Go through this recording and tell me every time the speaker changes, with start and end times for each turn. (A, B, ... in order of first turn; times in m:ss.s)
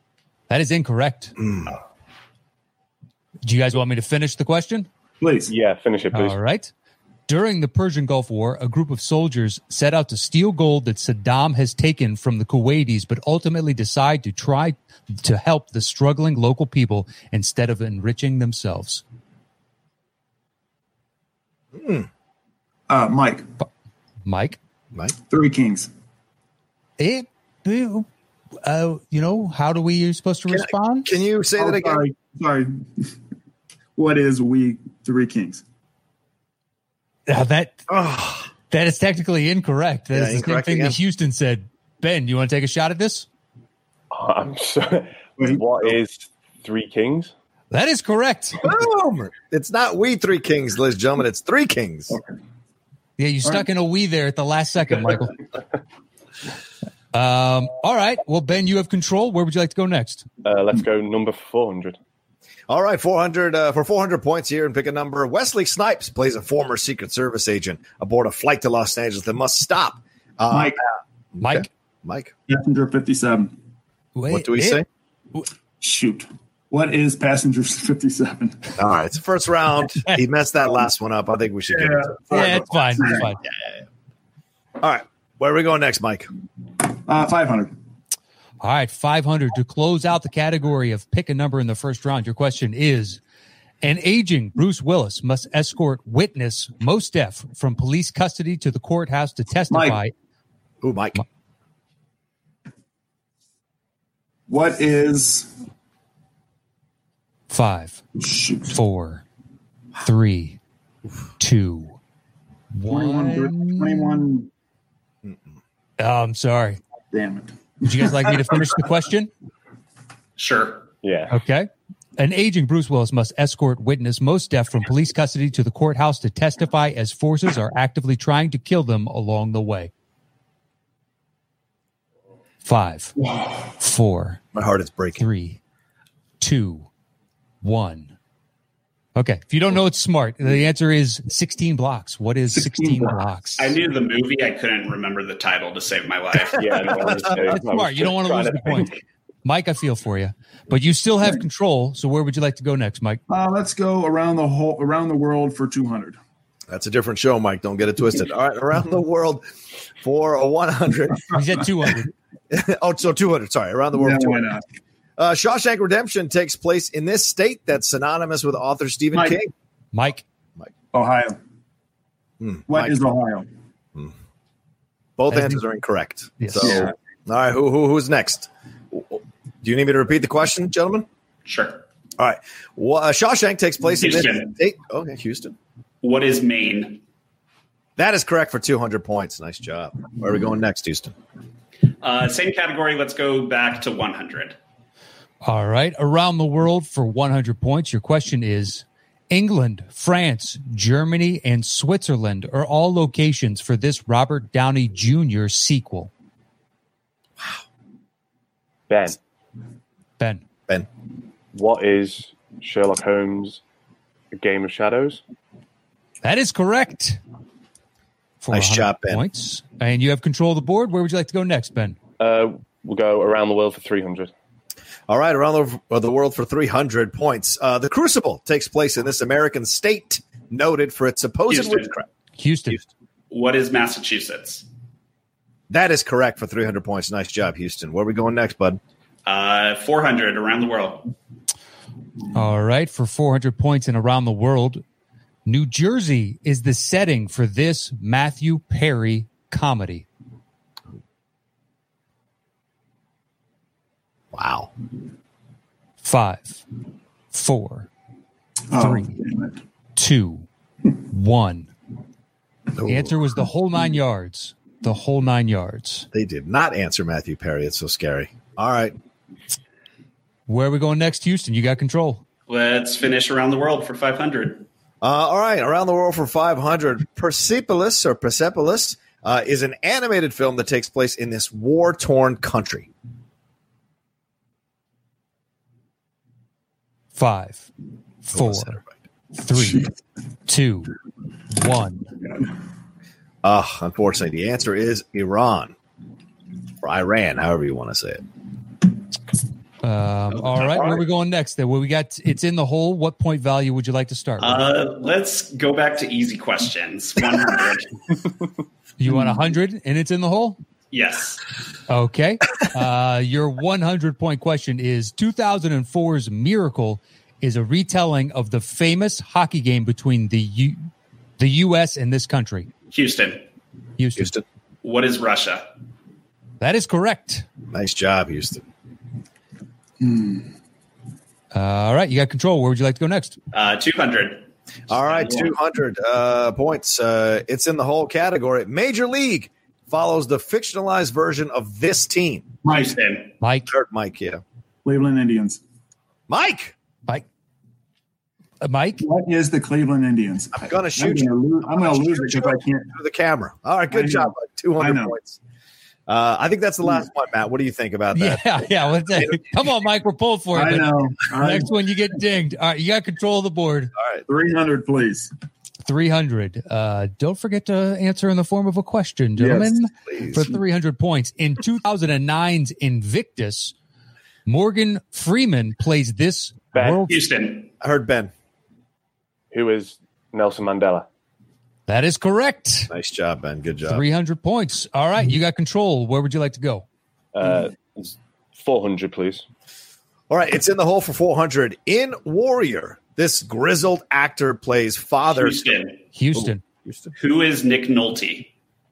0:00.5-0:01.3 A
0:01.4-0:01.7 B
0:03.4-0:04.9 A
0:05.2-0:05.5 C
0:05.5-0:06.4 D
0:06.1-0:06.7 A
0:07.3-0:19.0 A
0:21.7-0:22.1 B
0:22.9-0:23.4 C
0:24.2-0:24.6 A
0:25.3-0:25.9 C
0:27.0-0:28.1 A
0:28.6-0:31.1 A
0:30.5-0:32.0 B
0:31.6-0:33.1 C
0:34.0-0:35.6 C
0:37.3-0:37.8 A
0:37.9-0:38.5 B
0:38.7-0:43.2 A
0:40.1-0:41.0 B
0:44.1-0:47.3 D
0:45.4-0:46.0 C
0:47.7-0:48.6 A
0:48.6-0:52.2 B
0:53.2-0:55.3 A
0:57.1-1:00.2 A
1:00.4-1:02.0 D
1:02.7-1:12.3 B
1:10.5-1:10.8 C
1:11.4-1:11.7 A
1:12.5-1:13.5 C
1:14.1-1:15.5 A
1:14.3-1:14.8 B
1:15.8-1:18.7 C
1:18.8-1:22.5 B
1:21.7-1:23.3 C
1:22.3-1:23.4 A
1:23.4-1:23.8 B
1:24.8-1:26.3 B
1:27.0-1:27.7 C
1:28.6-1:33.2 A
1:33.8-1:40.1 A
1:39.7-1:40.0 C
1:40.8-1:41.2 B
1:44.5-1:45.5 C
1:47.5-1:48.0 A
1:48.2-1:48.8 C
1:48.7-1:49.2 A
1:50.0-1:50.6 A
1:51.4-1:52.0 A
1:52.7-1:54.2 A
1:52.9-1:54.5 C
1:56.0-1:56.8 A
1:57.1-1:58.1 C
1:57.8-1:59.3 A
2:00.4-2:00.9 E
2:01.0-2:01.3 D
2:01.3-2:09.9 A
2:12.6-2:13.2 A
2:13.7-2:14.4 A
2:14.5-2:15.2 B
2:15.2-2:15.6 A
2:16.4-2:16.9 A
2:17.6-2:18.1 A
2:19.2-2:23.8 A
2:22.5-2:23.2 C
2:23.6-2:26.9 E
2:26.5-2:29.0 D
2:27.4-2:28.9 A
2:29.4-2:33.2 A
2:33.3-2:36.2 C
2:36.7-2:39.4 B
2:40.0-2:41.3 B
2:41.3-2:42.1 A
2:42.5-2:44.5 B
2:44.0-2:44.6 C
2:45.2-2:49.5 B
2:49.1-2:49.4 C
2:49.9-2:50.2 A
2:50.9-2:51.4 C
2:52.4-2:53.0 B
2:52.7-2:53.4 C
2:55.2-3:01.1 B
2:55.3-2:55.6 A
2:56.4-2:56.9 A
2:56.6-2:56.9 C
3:01.4-3:01.8 E
3:02.2-3:05.6 B
3:04.0-3:04.5 E
3:06.0-3:07.0 E
3:08.0-3:11.1 B
3:12.0-3:14.6 E
3:15.4-3:26.1 A
3:28.9-3:29.2 D
3:31.5-3:33.6 D
3:34.3-3:35.2 D
3:36.2-3:37.2 A
3:38.4-3:42.0 A
3:38.5-3:39.2 B
3:42.2-3:44.3 D
3:45.1-3:52.0 B
3:51.5-3:51.9 E
3:52.4-3:52.8 A
3:53.3-3:54.6 E
3:55.7-3:58.8 B
3:59.2-4:01.1 E
4:02.3-4:04.8 A
4:05.4-4:10.1 A
4:14.3-4:14.7 B
4:16.0-4:16.6 A
4:17.3-4:17.9 A
4:18.7-4:19.6 C
4:18.7-4:19.2 A
4:20.0-4:20.4 A
4:21.0-4:21.7 A
4:22.8-4:23.1 B
4:22.8-4:26.1 A
4:26.1-4:28.9 B
4:30.5-4:32.2 A
4:32.5-4:34.6 E
4:35.0-4:42.9 B
4:47.1-4:47.7 A
4:48.2-4:48.8 A
4:48.3-4:48.9 B
4:49.4-4:49.9 A
4:50.5-4:50.9 A
4:51.5-4:52.1 A
4:53.4-4:55.7 B
4:56.8-4:58.2 B
4:59.8-5:04.6 A
5:04.4-5:08.1 E
5:09.0-5:10.6 A
5:10.9-5:11.4 E
5:11.9-5:20.9 A
5:21.4-5:22.7 A
5:22.9-5:23.4 E
5:24.0-5:24.3 A
5:24.2-5:24.4 B
5:24.8-5:25.6 E
5:26.6-5:27.4 A
5:27.7-5:28.6 B
5:30.0-5:30.5 C
5:31.5-5:33.4 A
5:33.5-5:35.5 E
5:34.9-5:42.5 B
5:42.6-5:43.0 C
5:42.6-5:43.3 E
5:43.4-5:43.7 A
5:43.7-5:44.4 B
5:44.8-5:45.6 C
5:46.3-5:46.7 B
5:48.6-5:49.0 A
5:49.0-5:52.9 C
5:50.5-5:55.4 B
5:53.9-5:55.1 C
5:56.1-5:58.6 B
5:58.1-6:03.9 A
6:00.5-6:01.7 C
6:04.0-6:04.2 B
6:04.2-6:05.3 C
6:05.8-6:13.7 A
6:09.4-6:09.8 C
6:10.1-6:10.5 B
6:14.4-6:17.2 A
6:16.8-6:17.0 D
6:17.1-6:17.7 E
6:17.8-6:18.3 B
6:19.5-6:21.0 D
6:21.9-6:22.9 A
6:22.9-6:24.0 B
6:23.8-6:26.8 A
6:27.3-6:29.4 D
6:30.3-6:35.8 B
6:35.3-6:36.0 E
6:36.1-6:36.6 A
6:36.3-6:37.1 B
6:37.2-6:38.5 E